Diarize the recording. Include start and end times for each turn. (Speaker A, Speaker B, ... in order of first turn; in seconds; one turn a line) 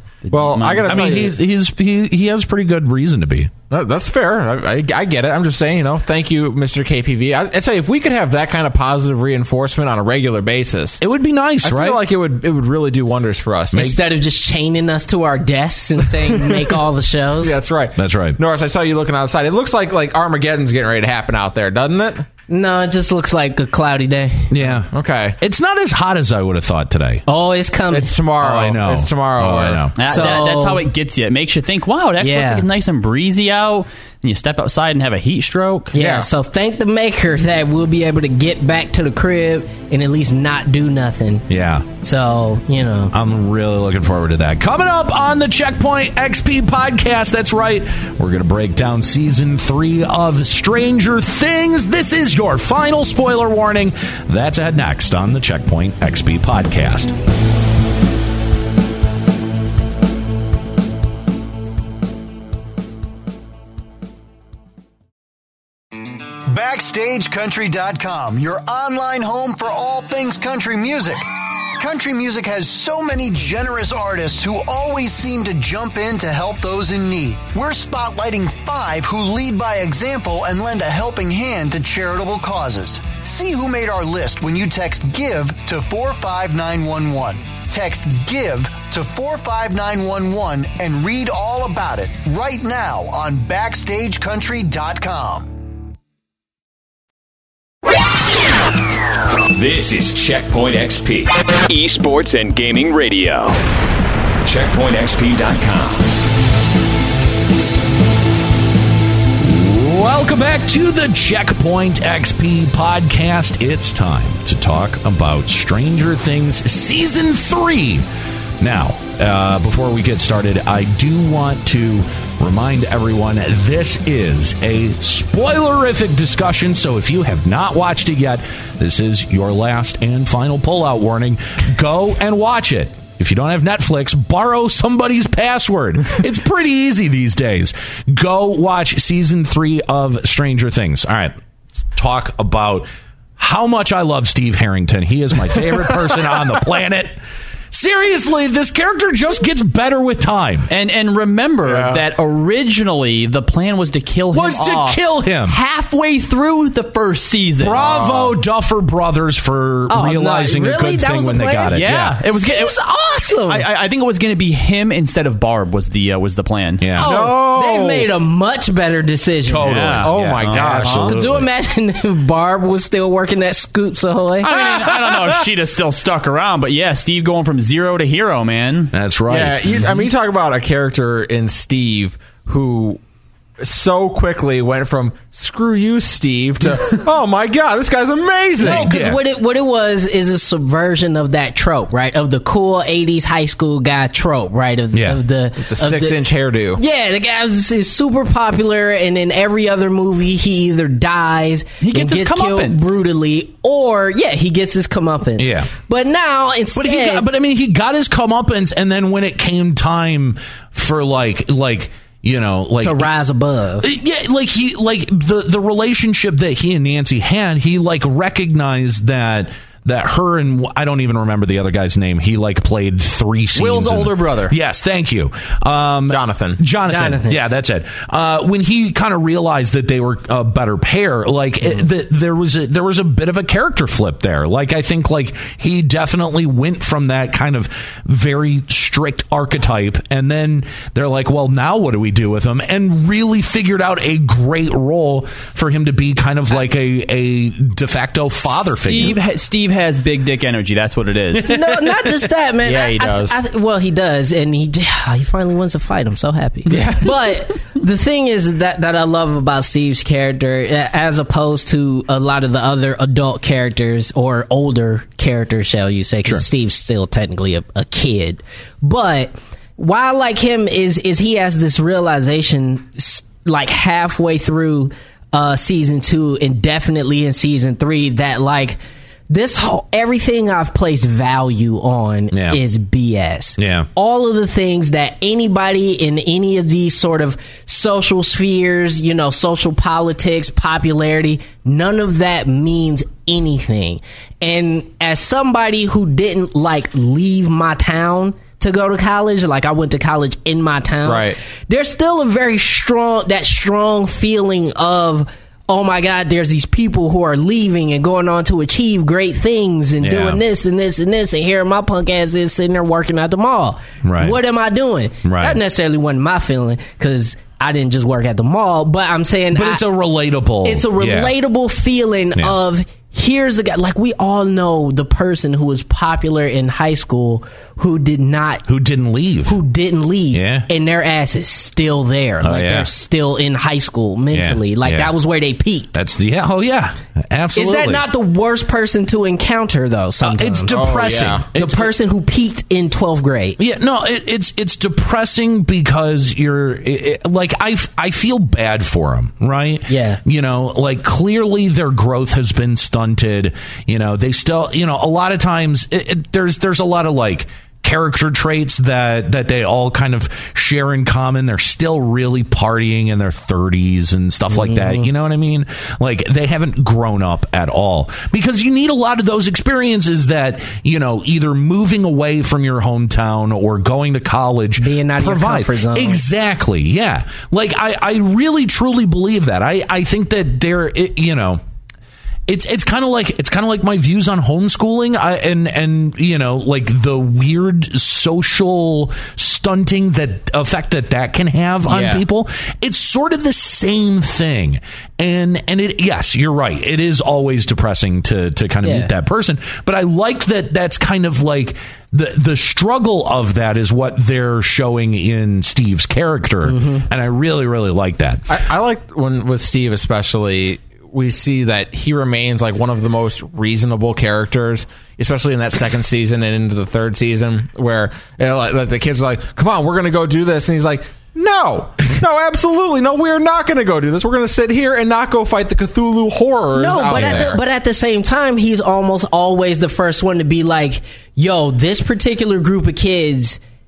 Speaker A: 0.2-1.2
Speaker B: 0.3-1.3
Speaker C: 0.9-3.5
Speaker B: 3.7-11.0
Speaker C: 11.0-12.0
Speaker B: 11.6-13.9
Speaker D: 13.7-17.6
Speaker B: 16.2-16.7
Speaker B: 17.4-22.3
Speaker C: 18.0-18.4
Speaker D: 22.5-24.5
Speaker C: 24.5-27.2
Speaker B: 24.9-25.4
Speaker D: 27.3-28.1
Speaker B: 27.9-29.9
Speaker C: 28.4-29.9
Speaker A: 30.0-35.9
Speaker D: 30.0-30.8
Speaker D: 32.2-32.6
Speaker D: 35.9-41.5
Speaker B: 35.9-36.3
Speaker C: 41.5-41.9
Speaker D: 42.0-43.1
Speaker C: 43.1-57.1
Speaker E: 66.5-71.2
Speaker E: 71.8-95.5
Speaker F: 99.5-103.6
Speaker F: 104.4-106.1
Speaker C: 109.4-118.0
Speaker C: 118.6-141.3
Speaker C: 141.9-147.2
Speaker C: 147.7-150.7
Speaker A: 150.7-157.9
Speaker B: 151.6-152.0
Speaker C: 154.3-155.6
Speaker C: 157.6-162.2
Speaker B: 157.8-158.3
Speaker D: 159.9-163.7
Speaker A: 161.7-162.8
Speaker A: 163.4-166.9
Speaker C: 166.8-167.1
Speaker B: 167.0-168.1
Speaker D: 167.0-169.7
Speaker C: 169.4-171.4
Speaker A: 169.6-171.1
Speaker B: 170.0-171.1
Speaker D: 170.8-174.5
Speaker A: 174.4-178.9
Speaker C: 174.5-175.4
Speaker C: 178.9-180.0
Speaker B: 179.3-183.0
Speaker B: 183.6-188.9
Speaker C: 188.6-189.2
Speaker D: 188.6-196.2
Speaker C: 194.9-195.2
Speaker B: 195.6-196.8
Speaker D: 196.8-207.2
Speaker A: 201.8-203.0
Speaker C: 205.4-205.7
Speaker C: 206.7-213.1
Speaker D: 212.8-213.9
Speaker C: 213.8-249.2
Speaker A: 223.5-224.6
Speaker B: 226.1-226.6
Speaker D: 226.8-227.4
Speaker A: 248.7-251.5
Speaker D: 251.4-319.8
Speaker B: 252.6-253.4
Speaker B: 256.7-257.1
Speaker C: 282.3-282.6
Speaker C: 283.6-283.9
Speaker B: 301.0-301.4
Speaker C: 310.0-310.4
Speaker C: 314.0-314.4
Speaker C: 315.2-315.6
Speaker C: 319.5-321.3
Speaker D: 320.6-328.6
Speaker C: 328.7-329.6
Speaker D: 329.4-335.9
Speaker C: 330.3-330.7
Speaker C: 332.4-332.9
Speaker C: 334.3-335.1
Speaker C: 335.9-338.0
Speaker D: 337.5-340.9
Speaker C: 340.2-341.9
Speaker B: 340.7-341.4
Speaker D: 341.5-343.6
Speaker C: 343.6-381.6
Speaker D: 349.9-350.2
Speaker D: 364.5-365.1
Speaker D: 374.8-376.2
Speaker C: 382.5-408.5
Speaker B: 391.9-392.2
Speaker D: 398.8-399.1
Speaker D: 406.6-407.0
Speaker B: 408.5-427.6
Speaker D: 426.7-433.6
Speaker C: 427.2-427.4